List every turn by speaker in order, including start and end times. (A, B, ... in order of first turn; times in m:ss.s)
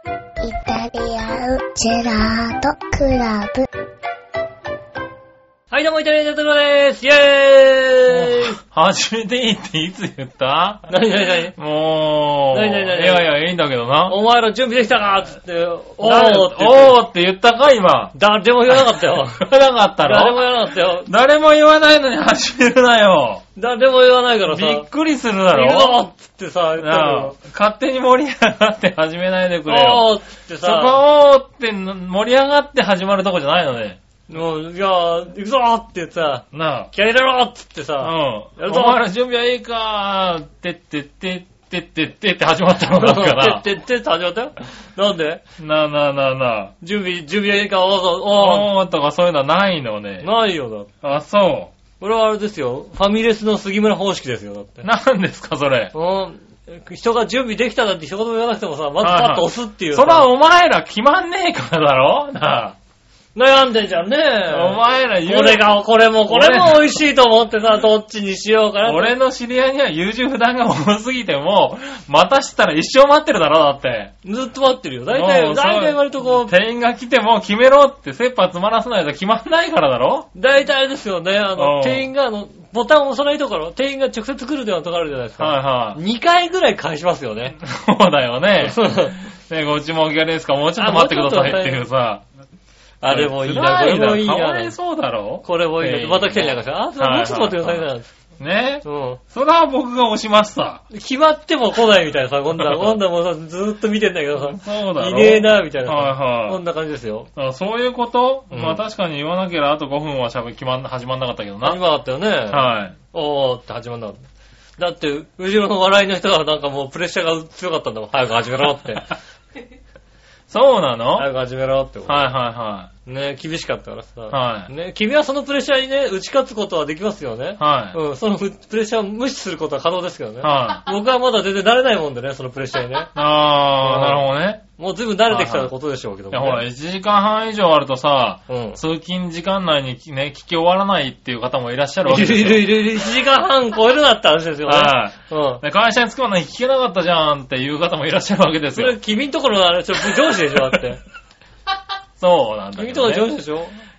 0:00.4-0:03.7 A
0:05.7-0:08.6 B
0:08.1-0:10.9 C
0:10.9-0:11.6 B
0:11.6-0:14.2 C
0:12.5-0:13.3 B
0:14.1-0:17.0 B
0:16.0-0:18.1 C
0:18.1-0:19.5 B
0:18.7-0:23.4 C
0:20.0-0:21.1 B
0:23.6-0:24.9 B
0:24.5-0:26.0 C
0:25.5-0:27.4 B
0:26.8-0:34.0 C
0:29.7-0:31.0 B
0:34.3-0:39.0 B
0:36.5-0:36.9 C
0:38.0-0:43.6 C
0:42.9-0:45.4 B
0:45.6-0:46.7 C
0:46.8-0:48.7 B
0:48.3-0:50.3 C
0:50.2-0:50.9 B
0:51.0-0:51.7 C
0:52.0-0:54.8 B
0:54.8-0:55.9 C
0:55.9-1:00.3 B
0:59.0-1:02.8 C
1:03.3-1:09.1 B
1:04.5-1:07.0 C
1:08.8-1:14.1 C
1:14.2-1:16.5 B
1:15.1-1:20.3 C
1:20.3-1:27.6 B
1:21.6-1:22.1 C
1:25.4-1:26.0 C
1:27.6-1:32.2 C
1:28.6-1:29.2 B
1:30.8-1:31.8 B
1:33.0-1:34.7 B
1:33.0-1:37.8 C
1:35.4-1:38.1 B
1:38.4-1:40.8 C
1:38.8-1:39.2 B
1:40.9-1:47.3 B
1:42.6-1:43.0 C
1:44.4-1:46.6 C
1:47.4-1:51.8 C
1:48.5-1:48.8 B
1:51.6-1:54.2 B
1:52.5-1:52.9 C
1:54.8-1:59.2 B
2:00.5-2:01.3 C
2:01.2-2:02.3 B
2:02.1-2:02.9 C
2:03.0-2:13.1 B
2:04.3-2:04.7 C
2:07.6-2:08.0 C
2:10.4-2:10.8 C
2:13.1-2:14.6 C
2:13.8-2:16.6 B
2:15.3-2:15.7 C
2:16.3-2:22.9 C
2:18.5-2:18.8 B
2:22.0-2:25.6 B
2:24.6-2:29.0 C
2:28.7-2:31.0 B
2:30.4-2:30.8 C
2:32.2-2:33.3 C
2:32.8-2:33.8 B